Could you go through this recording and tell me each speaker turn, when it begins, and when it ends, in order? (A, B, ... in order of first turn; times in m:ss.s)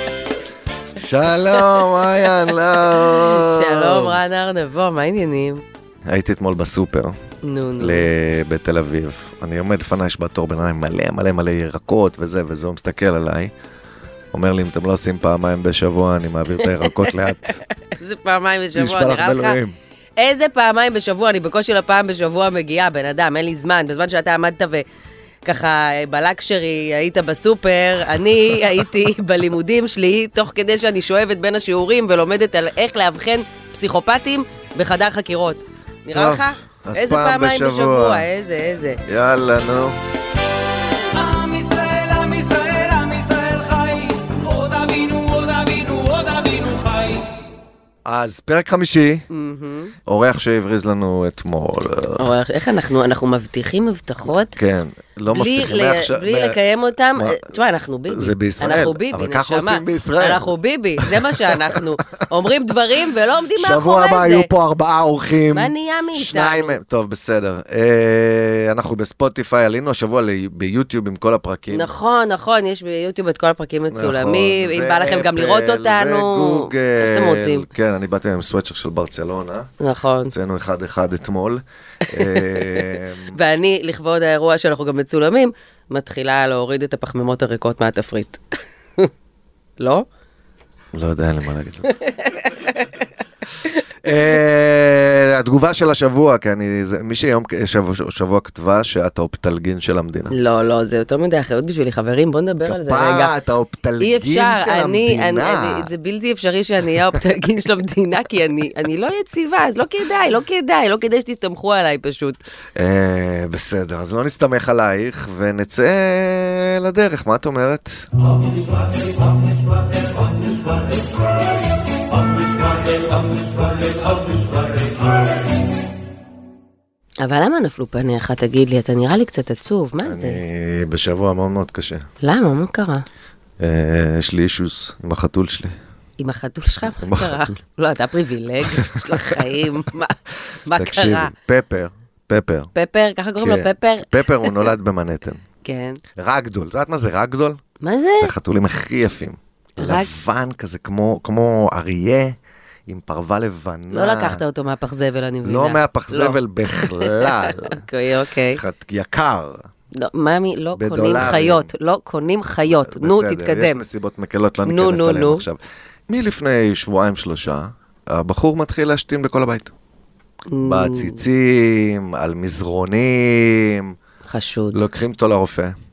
0:01.0-0:04.2 A
0:02.9-0:05.6 B
0:06.1-0:07.1 A
0:07.4-0:08.0 B
0:07.8-0:13.5 A
0:14.3-0:17.6 A
0:16.6-0:17.1 B
0:17.9-0:19.6 B
0:18.7-0:19.7 A
0:20.2-0:24.8 B
0:25.4-0:39.0 B
0:36.1-0:38.2 A
0:39.1-0:39.9 A
0:41.1-0:47.3 C
0:48.0-0:49.2 A
0:49.3-0:49.9 B
0:50.1-0:52.2 A
0:52.2-0:54.6 B
0:54.6-0:56.6 A
0:55.3-1:04.5 B
0:57.2-0:57.4 A
0:58.1-1:00.5 A
1:01.0-1:01.8 A
1:03.6-1:11.9 A
1:05.5-1:06.8 B
1:11.7-1:17.6 B
1:13.9-1:19.7 A
1:19.8-1:20.3 B
1:20.3-1:23.4 A
1:22.1-1:28.4 B
1:29.8-1:30.0 B
1:30.9-1:31.9 A
1:32.0-1:32.8 B
1:34.0-1:40.3 A
1:40.3-1:43.3 B
1:42.6-1:45.9 A
1:44.0-1:52.4 B
1:52.8-1:58.0 A
2:07.2-2:10.4 B
2:10.0-2:12.0 A
2:12.2-2:13.0 B
2:13.6-2:15.7 A
2:16.2-2:20.2 B
2:16.9-2:17.6 A
2:18.8-2:19.4 A
2:20.7-2:21.3 B
2:20.7-2:22.7 A
2:22.7-2:24.5 B
2:23.4-2:25.4 A
2:25.6-2:26.0 B
2:26.2-2:27.6 A
2:27.8-2:28.3 B
2:28.2-2:34.4 A
2:29.8-2:30.1 B
2:33.9-2:38.6 B
2:35.4-2:37.8 A
2:38.5-2:39.6 A
2:39.9-2:43.8 B
2:40.8-2:41.7 A
2:42.6-2:49.7 A
2:44.6-2:45.4 B
2:50.5-2:51.2 B
2:50.6-2:53.9 A
2:54.3-2:54.8 B
2:54.7-2:55.8 A